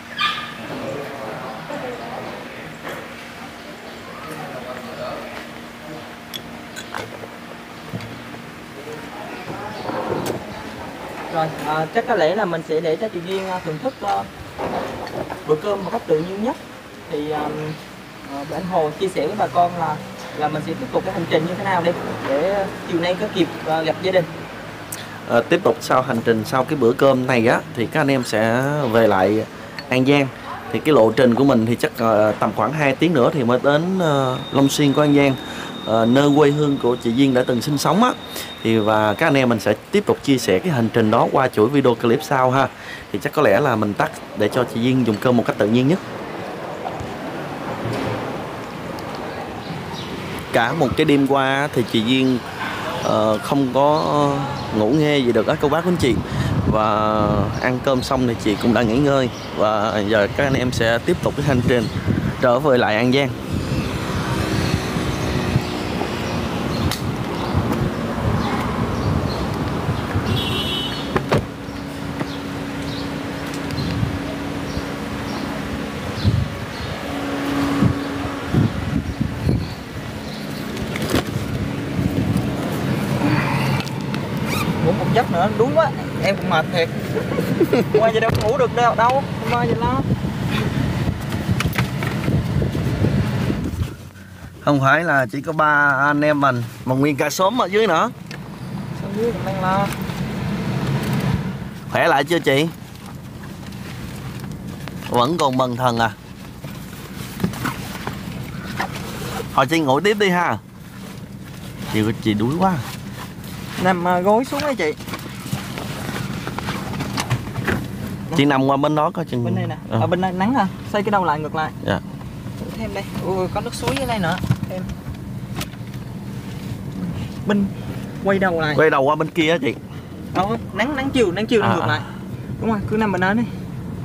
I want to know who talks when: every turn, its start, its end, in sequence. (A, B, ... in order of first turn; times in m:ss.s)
0:11.3-0:14.3 A
0:15.4-0:24.3 A
0:25.2-0:46.0 B
0:50.5-0:52.4 B
0:53.0-1:03.3 B
1:24.8-1:26.9 A
1:27.8-1:30.0 A
1:34.6-1:38.1 B
1:39.0-1:39.9 A
1:41.9-1:42.7 B
1:45.1-1:46.2 B
1:49.5-1:50.6 B
1:51.9-1:52.8 B
1:53.8-1:55.0 A
1:58.3-2:00.1 B
1:59.4-2:01.7 A
2:02.6-2:04.9 A
2:07.0-2:07.7 A
2:08.2-2:08.8 A
2:08.7-2:09.8 B
2:10.3-2:12.1 A
2:11.6-2:12.0 B
2:12.6-2:13.5 A